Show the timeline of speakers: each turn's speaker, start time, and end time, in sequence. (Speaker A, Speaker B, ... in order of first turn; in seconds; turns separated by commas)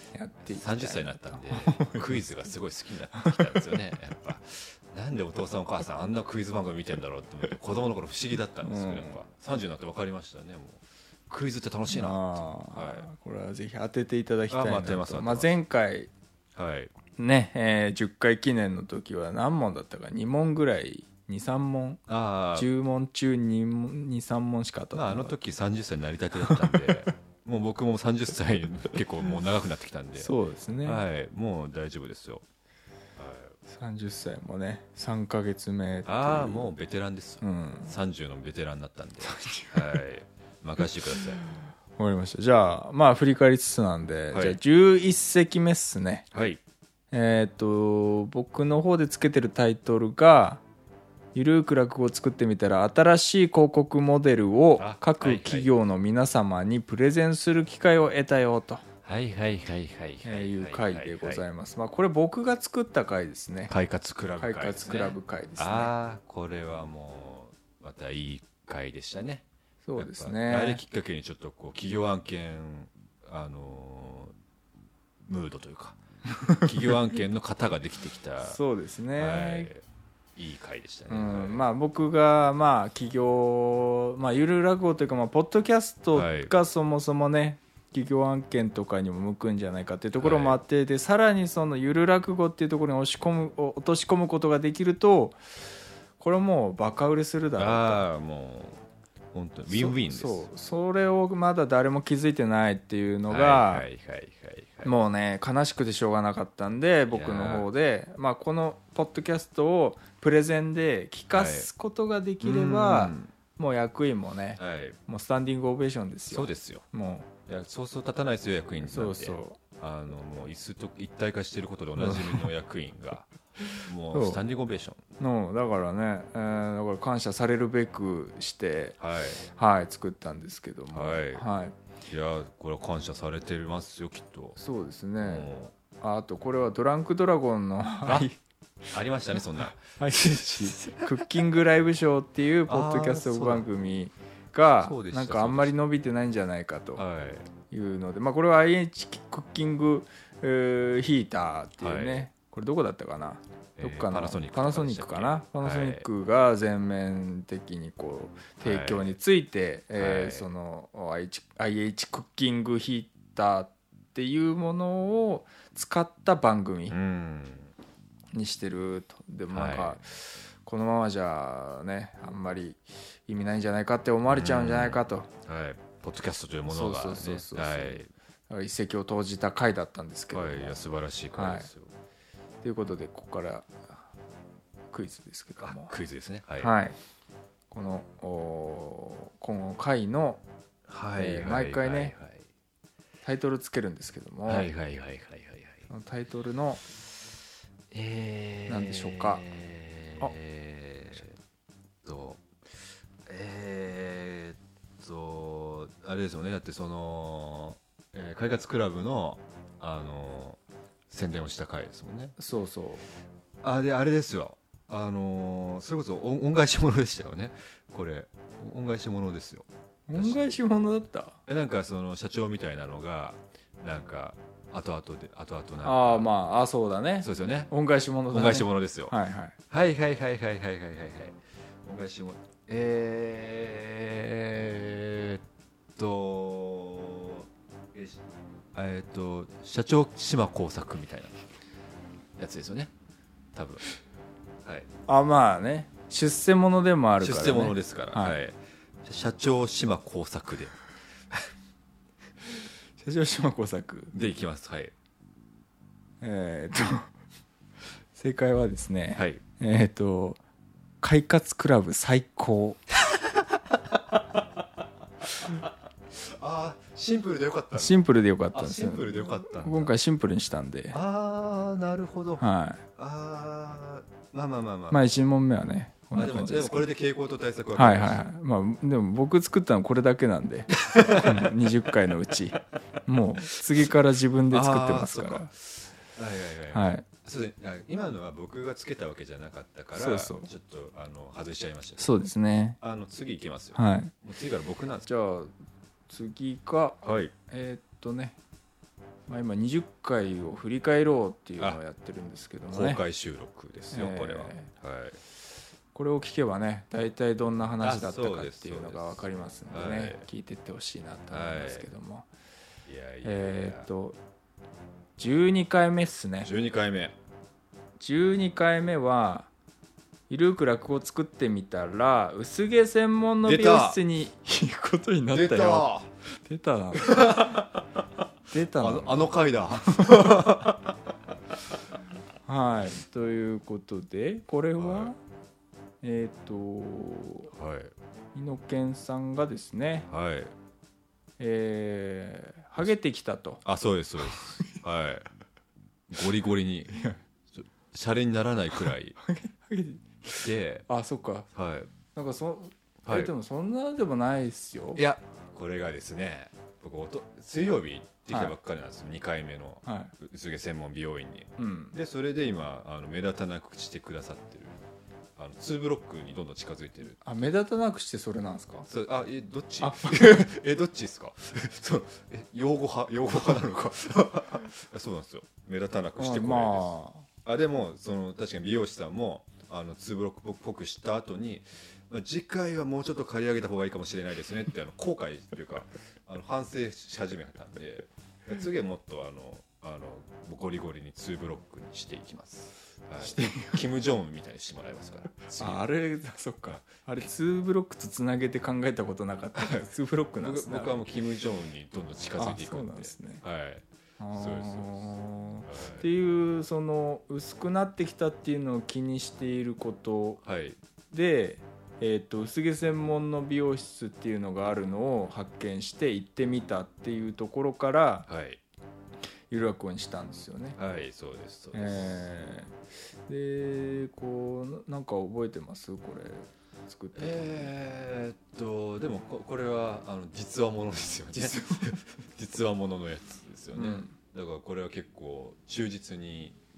Speaker A: 0.1-2.1, Speaker B: 0.5-13.1, Speaker A: 3.1-3.5, Speaker A: 8.6-9.2, Speaker A: 11.9-16.1, Speaker B: 14.5-15.5, Speaker B: 16.5-16.9, Speaker A: 17.2-22.0, Speaker B: 22.1-22.7, Speaker A: 22.5-25.3, Speaker B: 24.9-32.4, Speaker A: 26.4-27.1, Speaker A: 30.2-31.0, Speaker B: 33.2-33.5, Speaker A: 33.7-36.7, Speaker B: 36.0-41.4, Speaker A: 37.4-37.9, Speaker A: 39.2-40.0, Speaker A: 42.0-46.3, Speaker B: 44.3-44.6, Speaker B: 46.3-46.6, Speaker A: 47.1-50.6, Speaker A: 51.3-58.8, Speaker B: 54.8-55.7, Speaker B: 59.0-61.4, Speaker A: 60.2-63.7, Speaker B: 63.7-69.4, Speaker A: 64.4-65.9, Speaker A: 69.8-70.8, Speaker B: 70.0-74.3, Speaker B: 75.2-78.6, Speaker A: 78.4-79.7, Speaker B: 79.2-79.8, Speaker B: 80.3-81.6, Speaker A: 81.1-95.4, Speaker B: 86.1-86.5, Speaker B: 90.2-90.6, Speaker A: 96.2-98.0, Speaker B: 97.6-98.8, Speaker B: 99.3-100.5, Speaker A: 99.7-103.9, Speaker B: 103.3-104.9, Speaker A: 104.8-117.3, Speaker B: 107.1-107.7, Speaker B: 111.3-111.7, Speaker B: 112.4-113.3, Speaker B: 114.6-115.0, Speaker B: 116.3-116.8, Speaker B: 117.5-125.0, Speaker A: 118.8-119.6, Speaker A: 122.0-122.4, Speaker A: 123.7-124.4, Speaker A: 125.2-131.7, Speaker B: 129.0-129.4, Speaker B: 130.9-131.4, Speaker B: 132.1-134.6, Speaker A: 134.6-138.9, Speaker B: 135.2-135.7, Speaker B: 138.9-140.9, Speaker A: 140.0-147.0, Speaker B: 142.7-143.7, Speaker B: 144.8-145.7, Speaker B: 147.0-147.5, Speaker A: 147.7-167.0, Speaker B: 151.8-152.3, Speaker B: 153.8-156.1, Speaker B: 158.6-159.2, Speaker B: 159.9-160.5, Speaker B: 166.9-167.7, Speaker A: 168.3-175.3, Speaker B: 169.5-170.0, Speaker B: 174.3-178.1, Speaker A: 176.7-180.8, Speaker B: 180.3-181.9, Speaker A: 181.3-181.7, Speaker A: 182.6-183.7, Speaker A: 184.9-185.9, Speaker B: 185.6-186.7, Speaker A: 186.6-187.0, Speaker A: 187.7-190.4, Speaker B: 190.9-192.4, Speaker A: 191.2-192.1, Speaker A: 193.2-194.7, Speaker B: 194.5-195.9, Speaker A: 195.9-196.8, Speaker B: 197.9-201.3, Speaker A: 198.7-199.4, Speaker B: 202.0-202.4, Speaker B: 203.2-212.4, Speaker A: 212.4-213.0, Speaker B: 213.6-220.5, Speaker A: 220.1-221.4, Speaker B: 221.5-226.3, Speaker A: 225.8-229.6, Speaker B: 227.2-227.7, Speaker B: 228.3-229.1, Speaker B: 229.7-235.4, Speaker B: 235.9-238.2, Speaker B: 238.7-241.4, Speaker B: 242.4-242.9, Speaker B: 243.5-243.8, Speaker B: 244.6-244.9, Speaker A: 245.1-248.4, Speaker B: 247.2-250.7, Speaker A: 253.0-254.1, Speaker B: 254.1-254.9, Speaker A: 256.2-257.1, Speaker A: 258.1-260.4, Speaker B: 259.1-259.4, Speaker A: 261.0-262.8, Speaker B: 264.1-264.6, Speaker B: 265.2-269.9, Speaker A: 267.7-271.0, Speaker B: 270.9-272.4, Speaker A: 272.4-272.8, Speaker B: 272.9-275.0, Speaker A: 274.9-276.9, Speaker B: 276.1-278.3, Speaker A: 277.7-285.5, Speaker B: 280.8-281.5, Speaker B: 284.5-292.1, Speaker A: 286.7-287.0, Speaker A: 289.9-290.5, Speaker A: 292.0-292.8, Speaker B: 292.8-295.1, Speaker A: 293.7-294.1, Speaker A: 295.1-295.5, Speaker A: 296.1-298.4, Speaker B: 297.0-297.3, Speaker A: 299.3-303.0, Speaker B: 302.7-305.2, Speaker A: 303.9-304.7, Speaker A: 305.9-312.3, Speaker B: 307.8-310.2, Speaker B: 311.3-311.9, Speaker B: 312.9-313.9, Speaker A: 313.2-314.2, Speaker A: 315.2-316.5, Speaker B: 316.4-317.1, Speaker A: 318.0-319.5, Speaker A: 320.3-325.9, Speaker B: 323.4-324.0, Speaker B: 325.3-326.1, Speaker A: 326.4-327.6, Speaker B: 326.9-328.0, Speaker A: 328.5-330.3, Speaker B: 328.8-331.1, Speaker A: 332.4-335.2, Speaker B: 334.8-335.1, Speaker A: 336.0-337.5, Speaker B: 337.6-337.9, Speaker A: 338.3-340.1, Speaker B: 340.1-340.5, Speaker A: 341.4-343.6, Speaker B: 343.6-345.2, Speaker A: 344.3-344.8, Speaker B: 346.1-349.2, Speaker A: 346.9-347.2, Speaker A: 349.2-351.5, Speaker B: 350.3-350.9, Speaker B: 351.5-351.9, Speaker A: 352.1-355.0, Speaker B: 353.0-353.3, Speaker B: 354.9-364.8, Speaker A: 359.8-360.1, Speaker A: 361.6-361.9, Speaker B: 365.4-367.2, Speaker A: 367.2-368.9, Speaker B: 368.9-376.9, Speaker A: 369.8-370.4, Speaker A: 376.2-377.2, Speaker B: 377.4-395.8, Speaker A: 393.2-393.8, Speaker A: 395.6-401.1, Speaker B: 400.4-405.1, Speaker A: 402.4-403.4, Speaker A: 404.2-410.4, Speaker B: 405.7-406.1, Speaker B: 410.4-410.8, Speaker A: 411.1-418.3, Speaker B: 418.3-418.6, Speaker A: 419.5-420.8, Speaker B: 420.8-422.3, Speaker A: 421.7-422.7, Speaker A: 423.3-427.7, Speaker B: 427.1-436.6, Speaker A: 431.3-431.9, Speaker A: 433.7-434.1